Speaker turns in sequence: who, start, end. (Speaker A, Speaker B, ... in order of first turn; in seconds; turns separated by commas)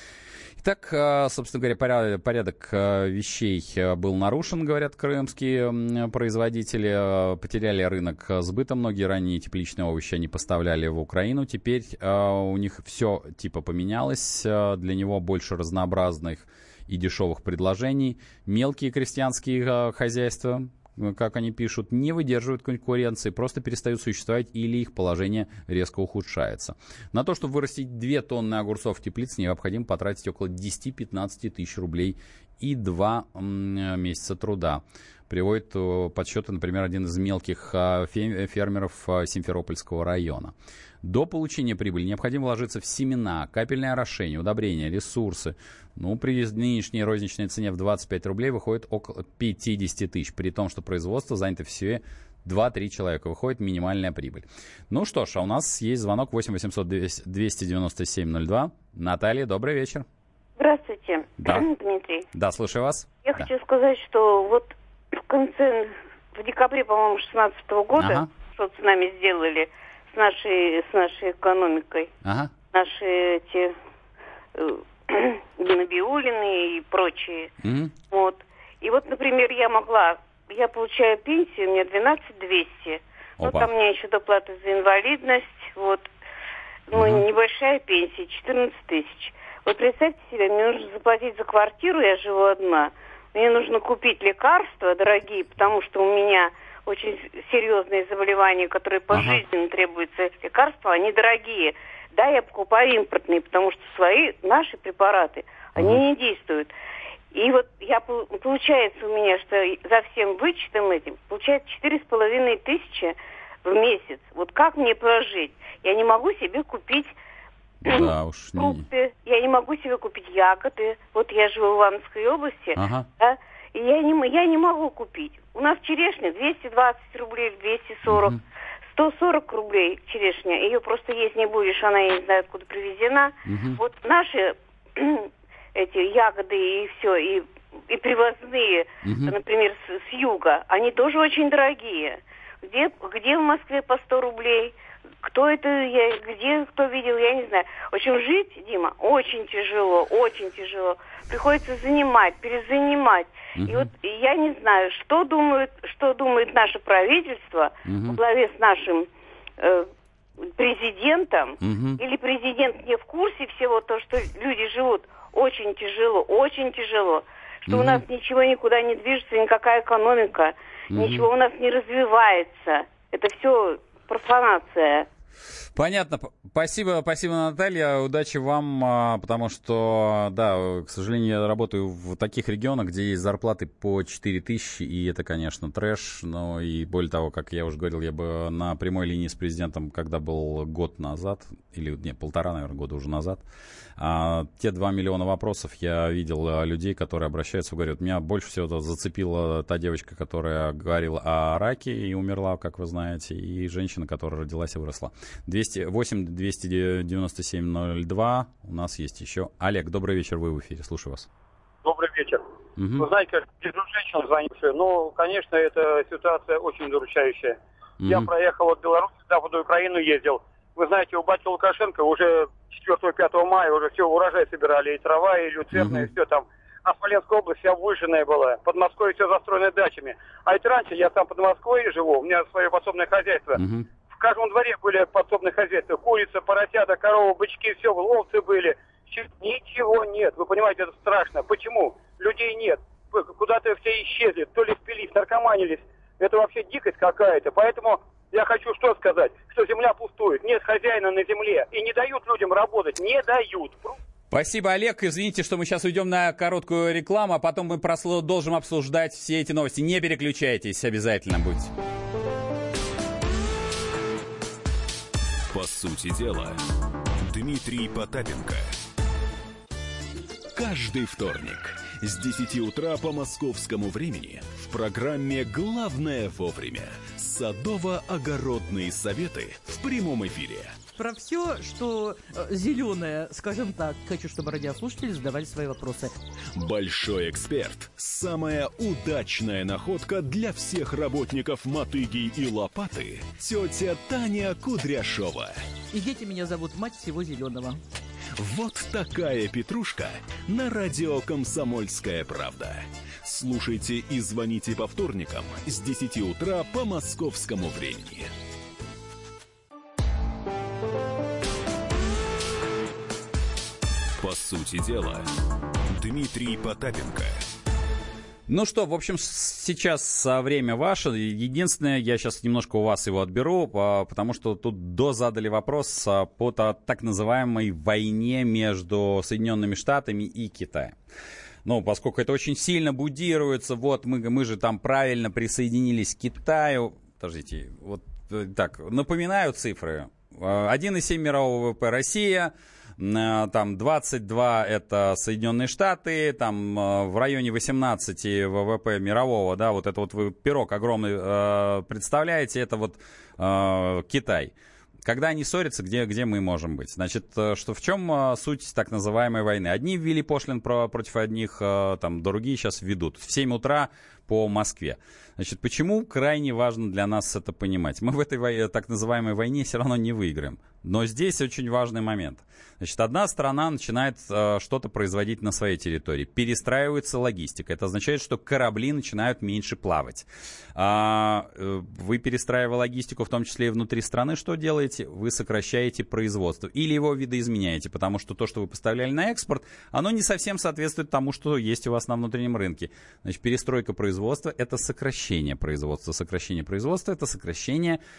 Speaker A: 0.6-60.1, Speaker B: 60.6-62.3, Speaker A: 61.4-61.7, Speaker A: 62.3-63.5, Speaker B: 63.2-64.7, Speaker B: 65.2-72.1, Speaker A: 68.0-68.3, Speaker A: 72.2-72.5, Speaker B: 72.7-73.7, Speaker B: 74.6-77.5, Speaker A: 77.6-77.9, Speaker B: 78.1-86.1, Speaker A: 83.4-83.7, Speaker B: 86.9-106.7, Speaker A: 86.9-87.2, Speaker A: 99.1-99.4, Speaker B: 107.3-117.2, Speaker B: 117.8-159.1, Speaker A: 117.9-118.8, Speaker A: 122.8-123.1, Speaker A: 128.1-128.4, Speaker A: 133.5-133.8, Speaker A: 139.0-139.3, Speaker A: 153.6-153.9, Speaker A: 157.9-158.2, Speaker B: 159.6-159.9, Speaker B: 160.6-175.1, Speaker A: 161.6-162.0, Speaker A: 167.7-168.0, Speaker A: 170.9-171.3, Speaker A: 175.8-193.4, Speaker A: 194.0-211.3, Speaker C: 211.8-212.4, Speaker A: 212.8-213.1, Speaker C: 213.0-233.6, Speaker A: 218.0-218.3, Speaker A: 225.8-226.1, Speaker A: 233.6-233.9, Speaker C: 234.1-253.9, Speaker A: 254.3-261.7, Speaker D: 265.5-266.6, Speaker D: 267.2-268.8, Speaker D: 270.6-280.8, Speaker E: 281.0-286.1, Speaker D: 286.6-295.6, Speaker E: 295.9-297.8, Speaker D: 298.4-308.3, Speaker D: 314.2-315.3, Speaker D: 315.9-317.4, Speaker A: 318.5-331.0, Speaker A: 331.6-398.0